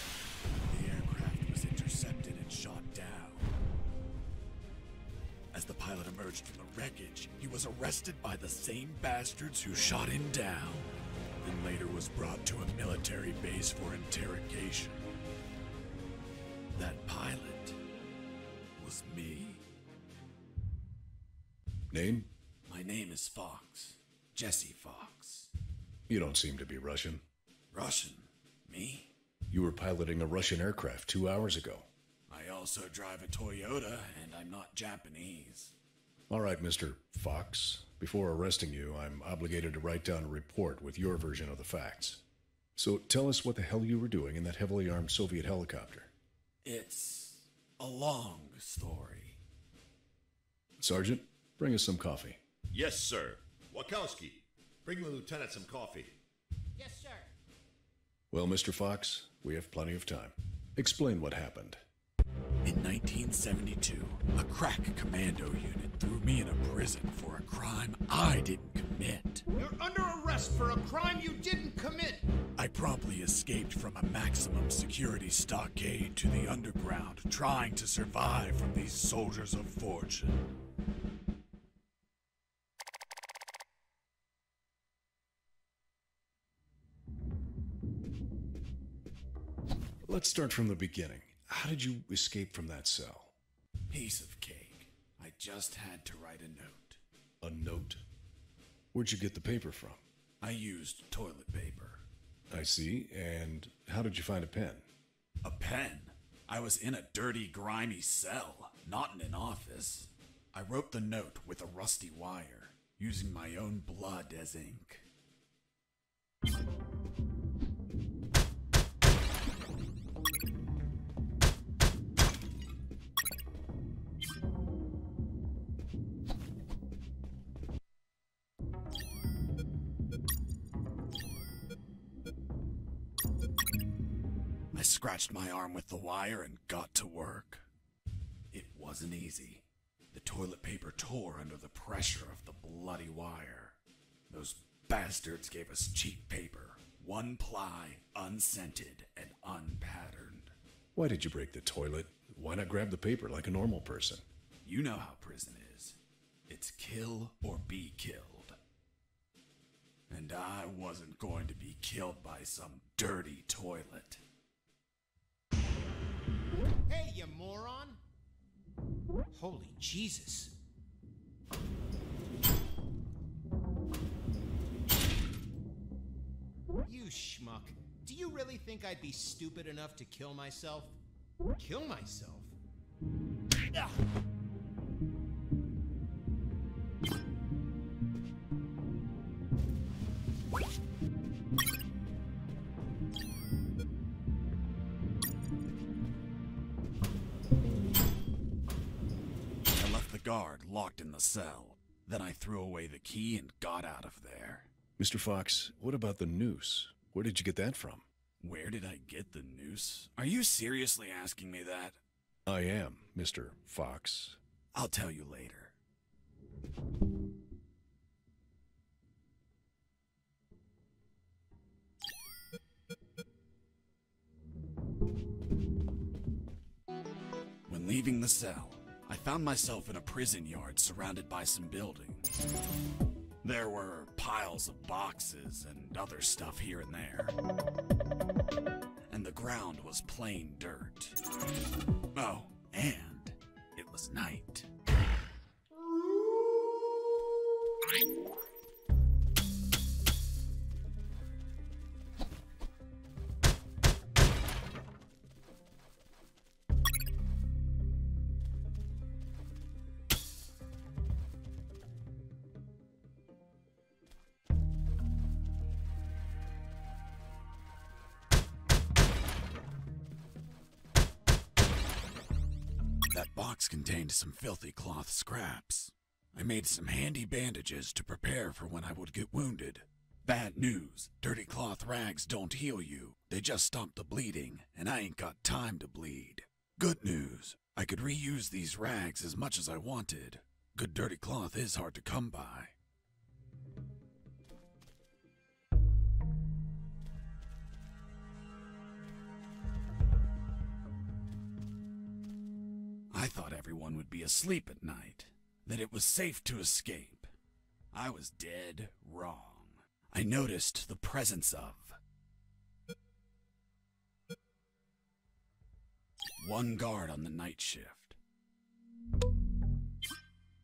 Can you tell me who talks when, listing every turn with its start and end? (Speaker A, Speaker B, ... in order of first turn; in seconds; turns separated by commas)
Speaker A: 0.7-3.5, Speaker A: 5.5-10.9, Speaker A: 11.4-15.0, Speaker A: 16.7-17.8, Speaker A: 18.8-19.6, Speaker B: 21.9-22.3, Speaker A: 22.7-25.5, Speaker B: 26.1-27.2, Speaker A: 27.7-29.1, Speaker B: 29.5-31.9, Speaker A: 32.3-35.8, Speaker B: 36.3-42.2, Speaker B: 42.8-46.1, Speaker A: 46.6-49.4, Speaker B: 50.8-52.4, Speaker C: 52.7-56.2, Speaker D: 56.8-57.3, Speaker B: 58.3-61.8, Speaker A: 62.6-69.4, Speaker D: 69.5-72.2, Speaker A: 72.6-80.4, Speaker B: 90.1-93.3, Speaker A: 93.9-97.0, Speaker B: 97.4-98.0, Speaker B: 98.9-100.0, Speaker A: 100.4-102.0, Speaker B: 102.5-104.9, Speaker A: 105.4-115.1, Speaker A: 134.7-137.6, Speaker A: 138.5-143.8, Speaker A: 144.3-150.5, Speaker B: 150.9-154.2, Speaker A: 154.6-158.6, Speaker A: 160.1-164.2, Speaker D: 166.9-168.0, Speaker D: 169.3-170.6, Speaker D: 176.8-181.0, Speaker D: 181.6-182.6, Speaker A: 199.7-204.7, Speaker B: 205.0-208.1, Speaker A: 208.4-212.0, Speaker B: 212.5-214.4, Speaker A: 214.7-215.8, Speaker A: 227.7-232.3, Speaker A: 233.4-237.3, Speaker A: 239.1-241.2, Speaker A: 242.1-244.7, Speaker A: 273.1-292.7, Speaker A: 303.1-307.3, Speaker A: 307.9-312.0, Speaker A: 316.4-318.2